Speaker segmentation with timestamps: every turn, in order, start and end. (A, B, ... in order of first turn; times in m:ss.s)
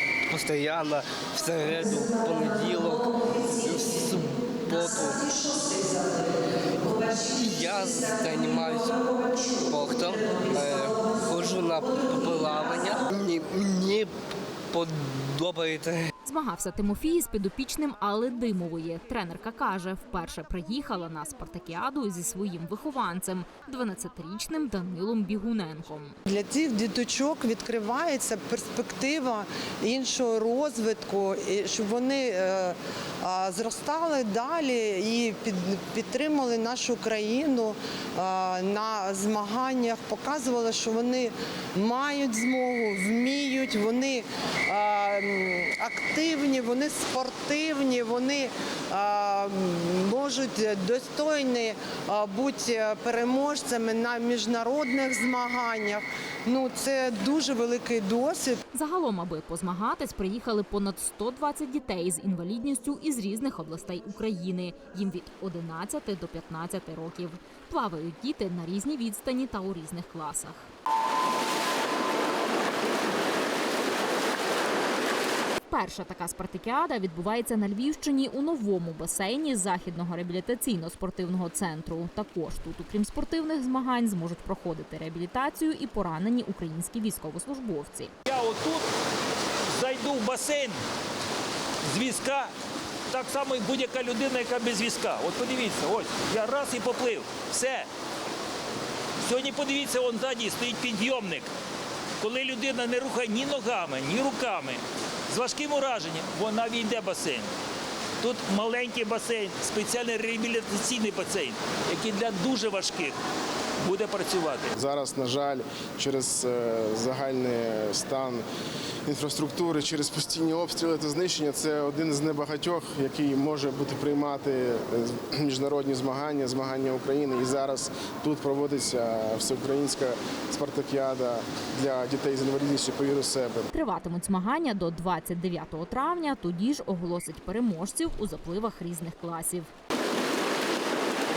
0:00.3-0:14.1 A
0:14.7-0:16.1 A
0:16.2-0:26.2 B
0:26.3-0:58.6 C
0:58.7-1:10.7 B
1:15.7-1:28.1 B
1:28.3-1:28.8 D
1:29.8-1:30.8 D
1:31.9-1:32.5 D
1:33.1-1:37.9 D
1:39.2-1:41.5 D
1:42.2-1:47.5 D
1:48.2-1:53.1 D
1:53.8-1:54.7 D
1:54.7-1:58.4 E
1:59.0-2:13.7 E
2:13.7-2:19.7 B